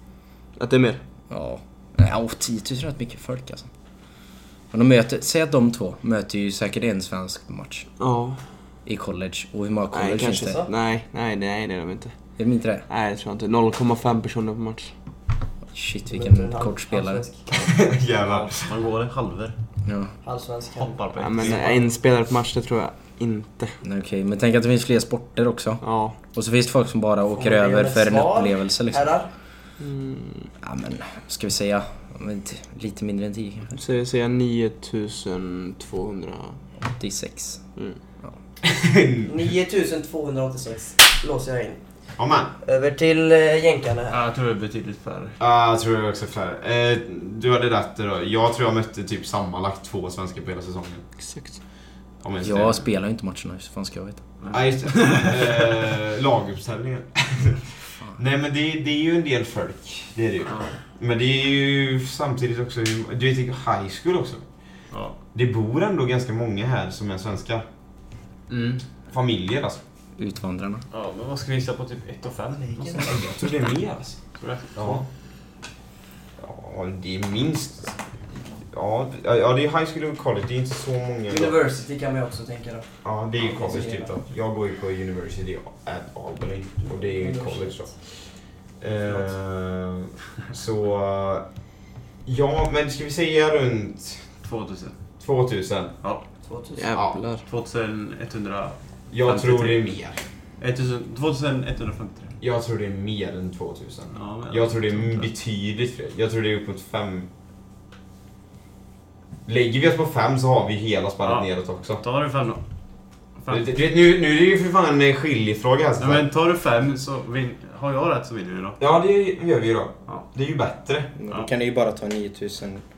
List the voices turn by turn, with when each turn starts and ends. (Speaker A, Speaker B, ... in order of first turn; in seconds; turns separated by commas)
Speaker A: 0.6-1.0, Speaker B: 1.3-3.7, Speaker B: 4.7-7.9, Speaker A: 8.0-8.4, Speaker B: 8.8-10.6, Speaker A: 9.9-12.1, Speaker C: 10.3-10.7, Speaker B: 12.4-12.8, Speaker A: 12.9-14.9, Speaker B: 15.7-17.2, Speaker C: 16.1-17.8, Speaker D: 17.5-18.7, Speaker E: 18.2-19.5, Speaker B: 19.9-20.1, Speaker C: 20.2-21.5, Speaker E: 20.8-21.8, Speaker A: 21.2-23.8, Speaker B: 23.8-29.1, Speaker A: 25.8-26.2, Speaker C: 27.3-29.3, Speaker A: 29.8-30.5, Speaker B: 30.6-33.8, Speaker A: 33.7-36.6, Speaker B: 36.8-37.6, Speaker D: 38.6-39.3, Speaker C: 39.2-41.8, Speaker D: 42.2-42.5, Speaker C: 42.6-44.2, Speaker E: 44.1-45.4, Speaker D: 45.4-51.0, Speaker A: 51.2-51.6, Speaker D: 52.2-52.9, Speaker B: 52.4-54.2, Speaker E: 54.4-55.7, Speaker D: 54.5-64.4, Speaker E: 64.9-65.2, Speaker D: 65.3-67.7, Speaker E: 68.5-68.8, Speaker D: 69.1-69.8, Speaker B: 70.2-70.8, Speaker E: 70.9-73.2, Speaker C: 72.6-73.2, Speaker D: 73.0-74.2, Speaker E: 74.3-75.0, Speaker D: 74.8-75.0, Speaker D: 76.4-78.0, Speaker D: 78.6-81.6, Speaker C: 81.3-84.1, Speaker D: 83.0-88.2, Speaker C: 86.8-87.9, Speaker D: 88.8-91.5, Speaker D: 92.2-94.3, Speaker E: 94.4-95.0, Speaker D: 95.2-95.9, Speaker C: 96.4-96.9, Speaker A: 96.8-97.4, Speaker E: 97.5-99.8, Speaker D: 99.1-100.2, Speaker E: 100.6-102.3, Speaker D: 102.4-107.3, Speaker E: 104.1-105.3, Speaker D: 109.5-112.0, Speaker E: 111.2-112.6, Speaker E: 113.4-113.8, Speaker D: 113.5-116.3, Speaker E: 116.0-118.8, Speaker D: 118.8-121.1, Speaker B: 121.2-122.8